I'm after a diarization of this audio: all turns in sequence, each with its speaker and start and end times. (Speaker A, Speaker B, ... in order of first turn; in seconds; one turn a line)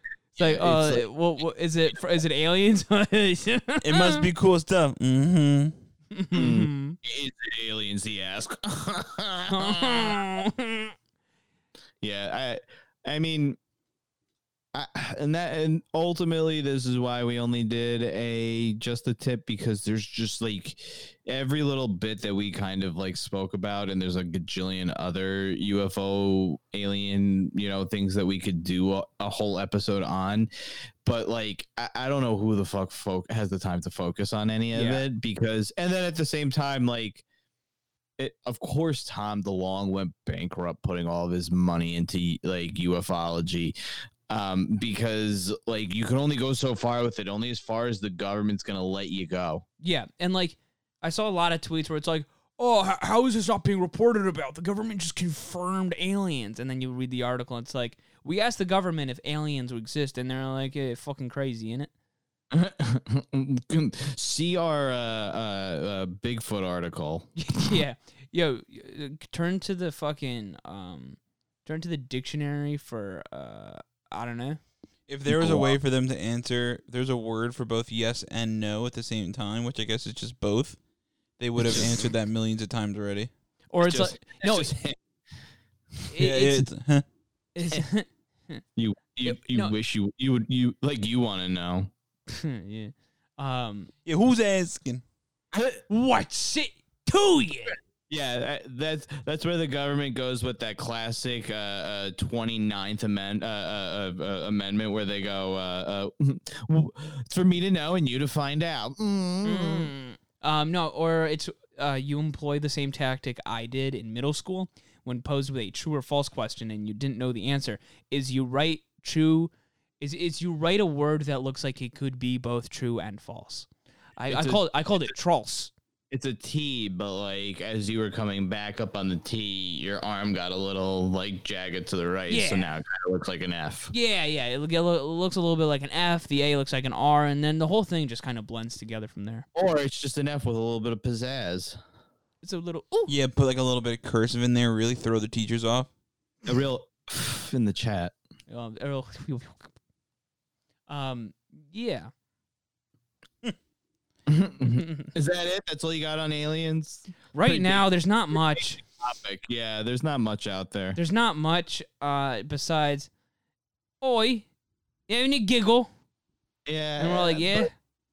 Speaker A: 0.4-4.3
Speaker B: 0.4-1.1
Speaker C: 3.8-5.8
Speaker A: 6.1-7.0
Speaker B: 6.3-10.4
Speaker A: 9.5-10.9
Speaker B: 12.0-13.6
Speaker B: 14.7-30.5
Speaker B: 31.0-37.2
Speaker A: 34.7-35.0
Speaker B: 38.2-43.8
Speaker B: 44.3-49.6
Speaker A: 49.8-61.9
Speaker B: 62.5-67.3
Speaker A: 67.4-74.6
Speaker C: 75.1-80.8
Speaker B: 75.3-75.8
Speaker C: 81.4-83.3
Speaker B: 81.7-82.1
Speaker A: 83.7-84.7
Speaker B: 83.8-85.0
Speaker A: 86.1-86.7
Speaker C: 86.2-87.0
Speaker A: 87.5-88.6
Speaker B: 88.8-91.9
Speaker A: 89.2-89.7
Speaker A: 92.3-93.9
Speaker C: 94.1-95.0
Speaker B: 95.5-95.8
Speaker A: 95.9-97.8
Speaker B: 98.1-109.9
Speaker A: 109.4-125.7
Speaker B: 124.3-125.1
Speaker B: 126.1-133.9
Speaker A: 132.3-132.7
Speaker A: 133.9-139.5
Speaker B: 139.5-141.8
Speaker A: 142.4-143.1
Speaker C: 143.1-145.9
Speaker B: 146.4-148.1
Speaker A: 148.5-149.7
Speaker A: 150.9-152.1
Speaker B: 154.3-161.0
Speaker A: 154.8-155.1
Speaker A: 157.3-158.8
Speaker A: 161.0-163.1
Speaker A: 164.0-164.5
Speaker A: 165.1-165.9
Speaker B: 166.7-167.7
Speaker A: 167.0-167.7